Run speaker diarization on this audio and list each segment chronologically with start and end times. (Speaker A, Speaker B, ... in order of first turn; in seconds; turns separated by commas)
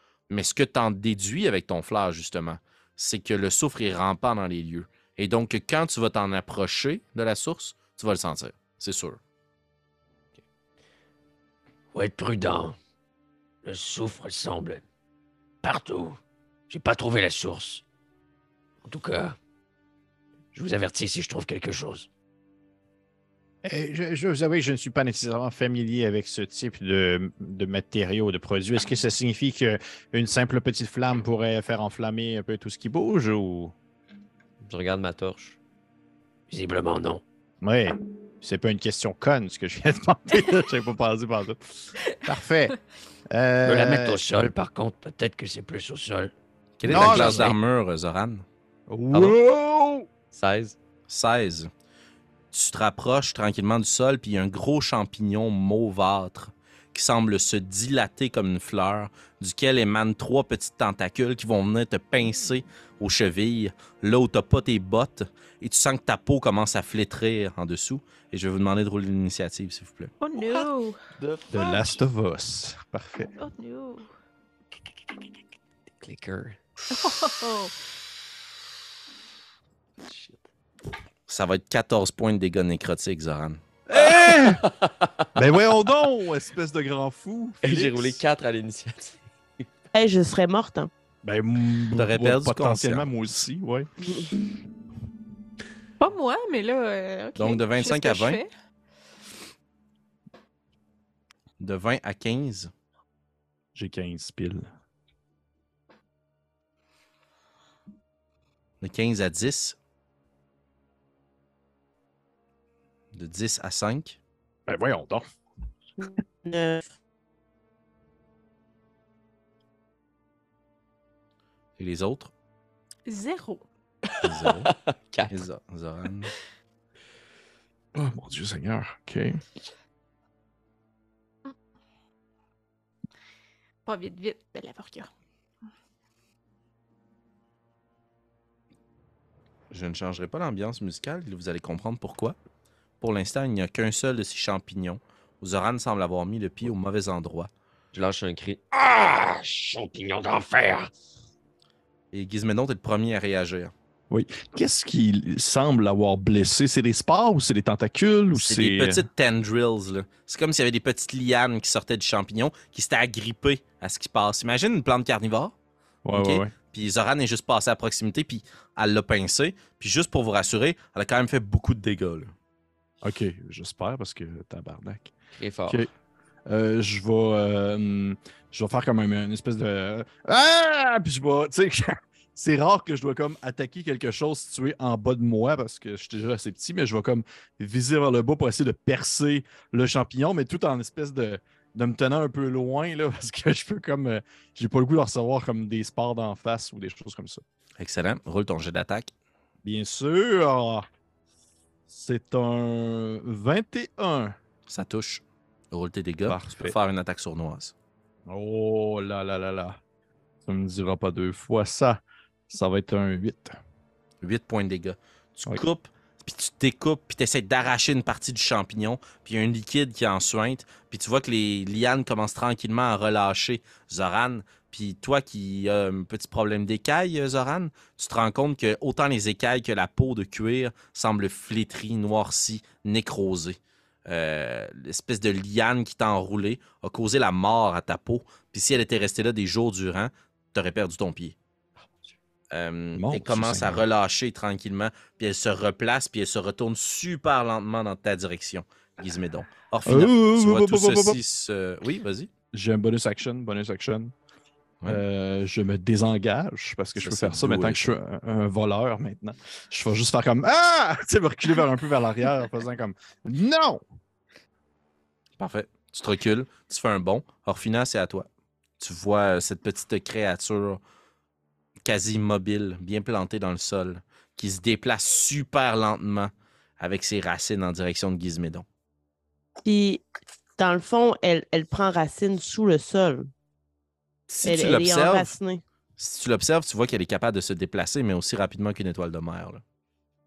Speaker A: 0.3-9.2, Speaker B: 11.9-12.8, Speaker B: 13.6-14.8, Speaker B: 15.6-17.8, Speaker B: 18.9-19.4, Speaker B: 20.5-22.1, Speaker C: 23.6-33.8, Speaker D: 34.6-35.6, Speaker B: 36.5-37.2, Speaker C: 37.6-42.8, Speaker C: 43.3-44.2, Speaker B: 43.6-46.3, Speaker A: 46.8-48.5, Speaker B: 46.9-47.6, Speaker C: 46.9-47.5, Speaker C: 48.9-50.1, Speaker D: 50.3-50.8, Speaker A: 51.1-51.7, Speaker A: 52.5-70.1, Speaker E: 70.2-71.0, Speaker C: 71.5-73.3, Speaker E: 71.5-71.8, Speaker E: 73.4-74.1, Speaker B: 76.0-76.6, Speaker E: 76.9-77.8, Speaker D: 80.1-80.4, Speaker A: 81.3-83.6, Speaker C: 83.9-84.6, Speaker D: 84.1-84.7, Speaker C: 85.3-88.2, Speaker D: 87.6-89.6, Speaker F: 89.9-90.9, Speaker C: 91.2-93.9, Speaker A: 92.0-93.1, Speaker E: 96.0-98.5, Speaker A: 97.4-98.4, Speaker A: 101.6-102.7, Speaker C: 103.8-104.7, Speaker A: 108.8-109.8, Speaker A: 113.1-114.2, Speaker C: 114.7-115.3, Speaker F: 116.0-116.9, Speaker A: 121.8-122.3, Speaker E: 123.1-123.6, Speaker B: 124.1-125.4, Speaker A: 124.2-124.7, Speaker A: 125.3-126.3, Speaker C: 127.9-129.4, Speaker E: 133.8-135.1, Speaker A: 139.7-142.4, Speaker A: 143.0-147.5, Speaker D: 147.9-148.6, Speaker B: 148.7-150.9, Speaker A: 152.1-153.7, Speaker C: 154.1-159.1, Speaker A: 158.3-165.5, Speaker C: 166.1-166.5, Speaker A: 166.1-172.3, Speaker C: 173.0-175.1, Speaker D: 175.3-175.9, Speaker C: 176.5-197.4, Speaker A: 197.8-199.1, Speaker C: 199.6-200.9, Speaker C: 201.9-204.4, Speaker A: 204.7-207.7, Speaker C: 206.3-206.8, Speaker C: 208.3-209.8, Speaker C: 210.4-213.6, Speaker A: 214.2-241.4, Speaker A: 242.5-252.3, Speaker C: 242.9-243.8, Speaker C: 249.9-251.2, Speaker C: 252.5-254.1, Speaker C: 254.8-263.8, Speaker A: 257.0-257.9, Speaker A: 265.4-268.3, Speaker A: 268.8-270.8, Speaker A: 271.9-278.6, Speaker F: 279.6-280.0, Speaker F: 280.6-283.3, Speaker A: 284.3-285.3, Speaker F: 284.4-285.6, Speaker A: 286.0-289.6